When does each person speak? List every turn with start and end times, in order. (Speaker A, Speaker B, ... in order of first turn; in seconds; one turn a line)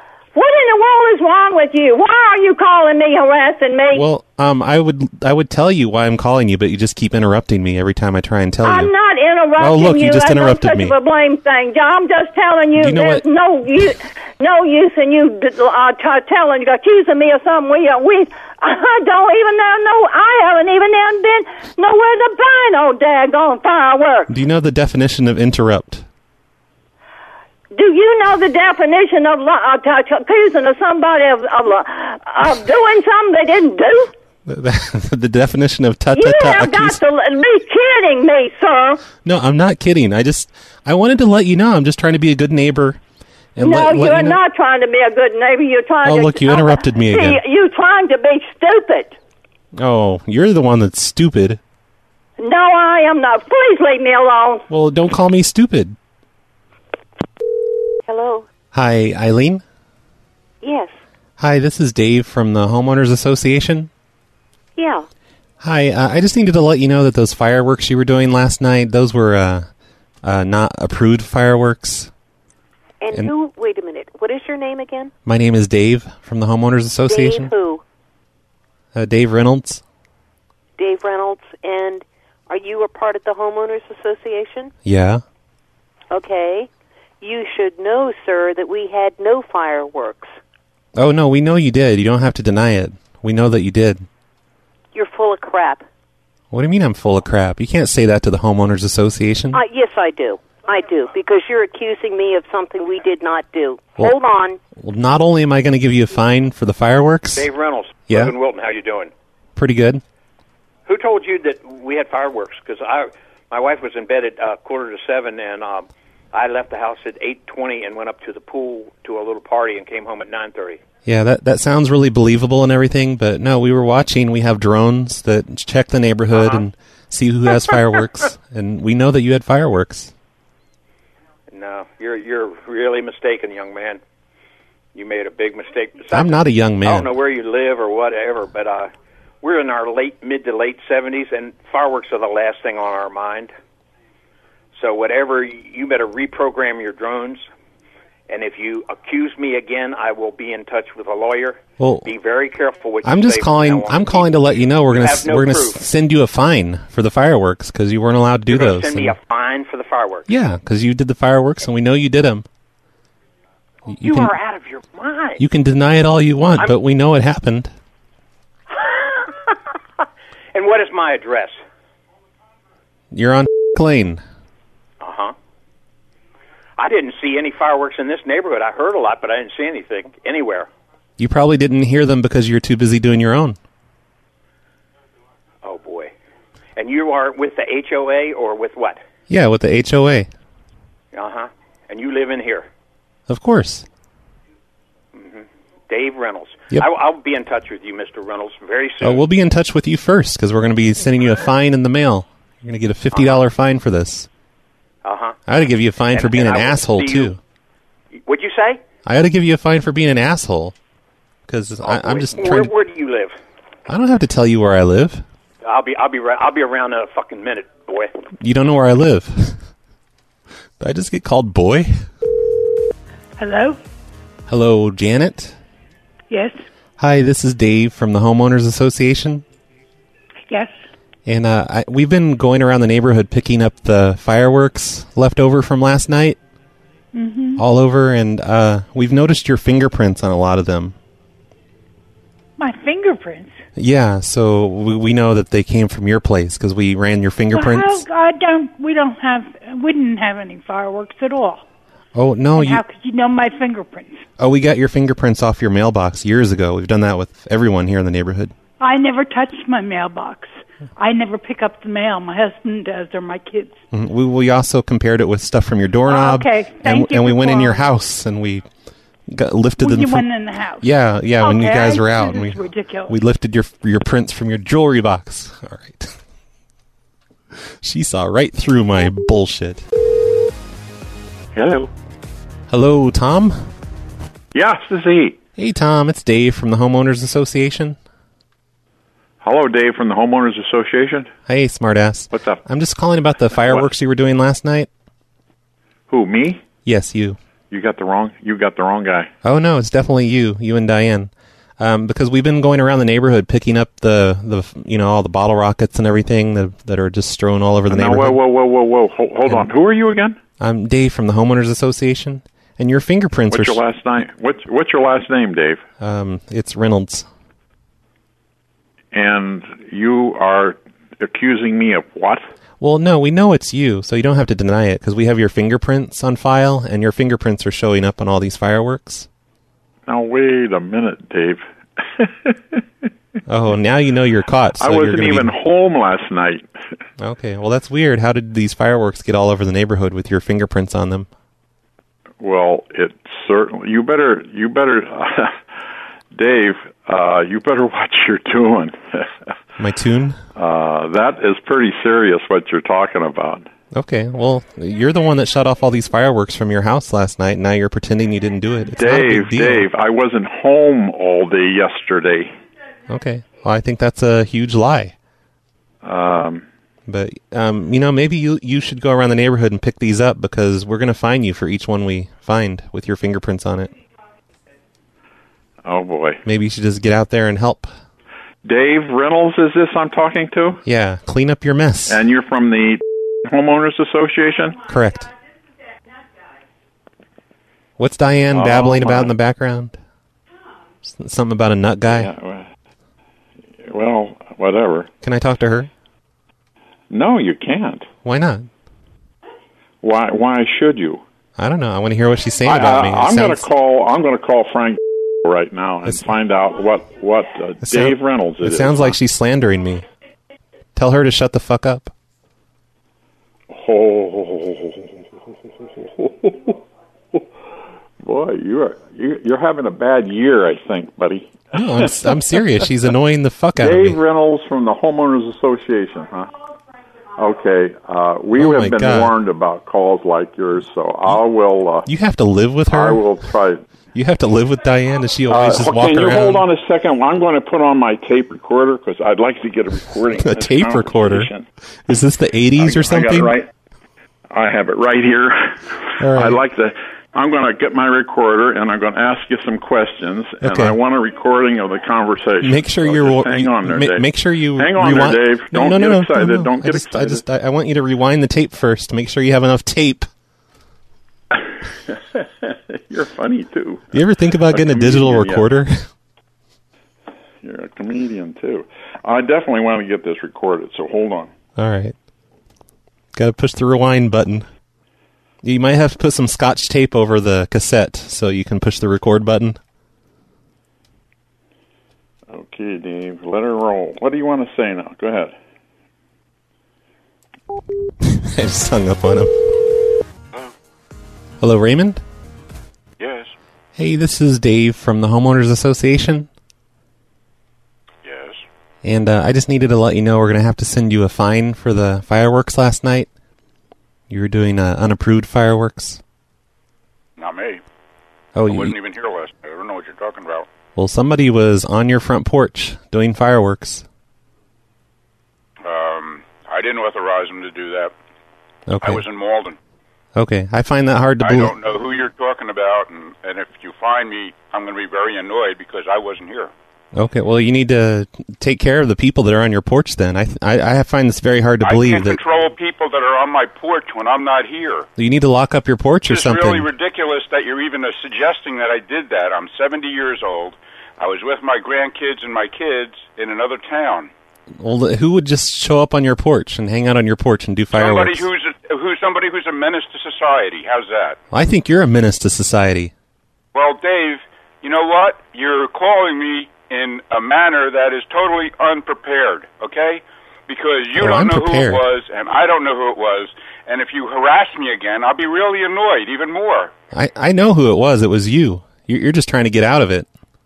Speaker A: 0.3-4.0
Speaker B: 3.9-8.9
Speaker A: 8.6-24.3
Speaker B: 9.6-10.9
Speaker B: 12.8-13.2
Speaker B: 24.3-26.1
Speaker A: 27.7-34.1
Speaker B: 34.5-37.0
Speaker A: 36.1-39.0
Speaker B: 39.2-43.0
Speaker B: 43.5-44.4
Speaker A: 43.6-49.1
Speaker B: 46.0-47.4
Speaker B: 49.7-51.6
Speaker A: 52.4-54.6
Speaker B: 54.7-56.0
Speaker C: 58.0-58.5
Speaker B: 58.7-59.6
Speaker C: 60.6-60.9
Speaker B: 61.4-63.9
Speaker C: 64.8-65.0
Speaker B: 65.6-69.7
Speaker B: 70.2-72.1
Speaker C: 73.0-75.1
Speaker B: 75.2-77.5
Speaker C: 77.1-77.8
Speaker B: 78.9-79.8
Speaker C: 80.8-84.7
Speaker B: 84.8-85.2
Speaker C: 86.1-86.7
Speaker C: 87.2-90.3
Speaker B: 91.0-94.0
Speaker C: 94.9-95.8
Speaker B: 96.5-99.6
Speaker C: 99.5-104.6
Speaker B: 104.8-107.5
Speaker D: 107.3-109.1
Speaker B: 109.5-110.0
Speaker D: 110.8-120.8
Speaker B: 121.0-130.1
Speaker D: 131.5-134.0
Speaker D: 134.9-138.9
Speaker B: 136.1-137.1
Speaker D: 139.4-143.5
Speaker D: 144.8-147.5
Speaker D: 148.3-155.8
Speaker B: 151.8-152.1
Speaker B: 153.0-159.1
Speaker D: 158.5-160.3
Speaker B: 160.3-162.4
Speaker B: 163.9-164.3
Speaker D: 164.0-165.4
Speaker B: 165.4-167.7
Speaker D: 168.7-169.6
Speaker D: 170.5-171.6
Speaker B: 173.1-174.2
Speaker D: 175.0-175.3
Speaker D: 176.8-180.7
Speaker B: 181.2-183.6
Speaker D: 185.6-186.1
Speaker D: 186.8-189.0
Speaker B: 189.3-190.3
Speaker D: 191.1-192.7
Speaker B: 193.3-193.8
Speaker D: 195.1-199.2
Speaker B: 199.0-204.3
Speaker D: 205.0-205.4
Speaker B: 205.5-207.4
Speaker D: 206.1-207.3
Speaker D: 208.1-208.8
Speaker B: 209.0-210.7
Speaker B: 211.5-212.7
Speaker D: 211.8-213.3
Speaker B: 213.9-215.2
Speaker D: 215.6-218.1
Speaker B: 218.4-219.6
Speaker B: 220.8-222.0
Speaker E: 223.4-223.8
Speaker B: 224.5-225.6
Speaker E: 226.3-226.6
Speaker B: 227.0-229.4
Speaker E: 230.5-230.7
Speaker B: 231.2-236.4
Speaker E: 237.1-237.6
Speaker B: 237.6-240.9
Speaker E: 242.6-243.6
Speaker B: 243.8-248.0
Speaker E: 247.5-251.6
Speaker B: 252.1-252.8
Speaker E: 252.5-254.3
Speaker B: 254.4-258.5
Speaker E: 258.8-263.8
Speaker B: 263.9-268.6
Speaker E: 266.1-267.9
Speaker B: 269.3-270.2
Speaker E: 269.8-273.1
Speaker B: 270.8-276.1
Speaker B: 277.8-279.8
Speaker F: 281.5-281.9
Speaker B: 282.7-283.6
Speaker F: 284.5-285.4
Speaker B: 285.6-288.0
Speaker F: 289.4-291.3
Speaker B: 291.5-294.9
Speaker F: 292.3-292.6
Speaker F: 293.6-293.9
Speaker F: 296.1-296.6
Speaker B: 296.8-297.4
Speaker F: 297.7-299.3
Speaker B: 299.4-308.4
Speaker F: 307.9-310.4
Speaker B: 310.6-313.8
Speaker F: 313.5-315.8
Speaker B: 316.0-317.3
Speaker F: 319.1-322.4
Speaker B: 322.8-329.3
Speaker F: 330.1-332.8
Speaker B: 333.5-335.5
Speaker F: 334.8-336.7
Speaker B: 337.2-341.3
Speaker F: 342.4-345.6
Speaker F: 346.3-349.4
Speaker B: 349.8-350.4
Speaker F: 350.6-353.7
Speaker B: 353.9-359.9
Speaker F: 359.0-362.5
Speaker B: 363.1-365.1
Speaker F: 366.0-366.6
Speaker B: 367.1-373.9
Speaker F: 375.8-376.4
Speaker B: 376.4-377.9
Speaker F: 378.6-380.8
Speaker B: 380.8-382.2
Speaker F: 382.1-384.8
Speaker B: 384.8-385.3
Speaker B: 388.0-390.0
Speaker F: 388.5-389.3
Speaker B: 391.0-392.3
Speaker F: 392.1-392.7
Speaker F: 393.8-395.1
Speaker B: 395.2-395.9
Speaker F: 397.1-398.1
Speaker B: 398.2-398.7
Speaker F: 400.0-401.2
Speaker B: 401.6-403.7
Speaker F: 402.6-409.1
Speaker B: 406.0-406.3
Speaker B: 407.8-410.0
Speaker B: 410.9-412.1
Speaker F: 413.7-415.2
Speaker F: 415.9-416.8
Speaker F: 418.2-422.6
Speaker B: 421.7-424.2
Speaker F: 423.8-426.5
Speaker F: 427.4-432.1
Speaker B: 428.5-429.3
Speaker B: 432.1-433.2
Speaker F: 432.9-433.8
Speaker B: 434.1-436.6
Speaker F: 435.5-441.6
Speaker B: 440.4-441.5
Speaker B: 442.1-443.6
Speaker F: 442.8-443.7
Speaker F: 444.5-457.4
Speaker B: 446.2-446.6
Speaker B: 450.6-451.0
Speaker B: 452.6-460.3
Speaker F: 461.5-464.1
Speaker B: 464.1-466.0
Speaker F: 464.7-465.6
Speaker F: 467.6-471.5
Speaker B: 471.8-472.1
Speaker B: 473.3-474.7
Speaker B: 475.6-479.8
Speaker F: 482.5-485.5
Speaker B: 488.2-489.5
Speaker B: 491.6-492.2
Speaker G: 493.2-493.5
Speaker B: 493.9-496.5
Speaker G: 498.2-498.6
Speaker B: 499.0-503.3
Speaker B: 504.3-506.2
Speaker G: 507.4-507.8
Speaker B: 508.6-508.9
Speaker G: 508.6-510.6
Speaker B: 510.9-514.0
Speaker G: 515.8-518.1
Speaker B: 518.9-519.2
Speaker G: 519.0-519.8
Speaker B: 520.4-521.7
Speaker G: 521.4-526.7
Speaker B: 527.1-532.4
Speaker G: 531.8-535.1
Speaker B: 535.2-536.9
Speaker G: 536.3-544.3
Speaker B: 544.8-548.5
Speaker G: 547.9-551.4
Speaker B: 551.5-553.1
Speaker G: 553.7-566.9
Speaker B: 561.2-562.0
Speaker B: 567.1-570.3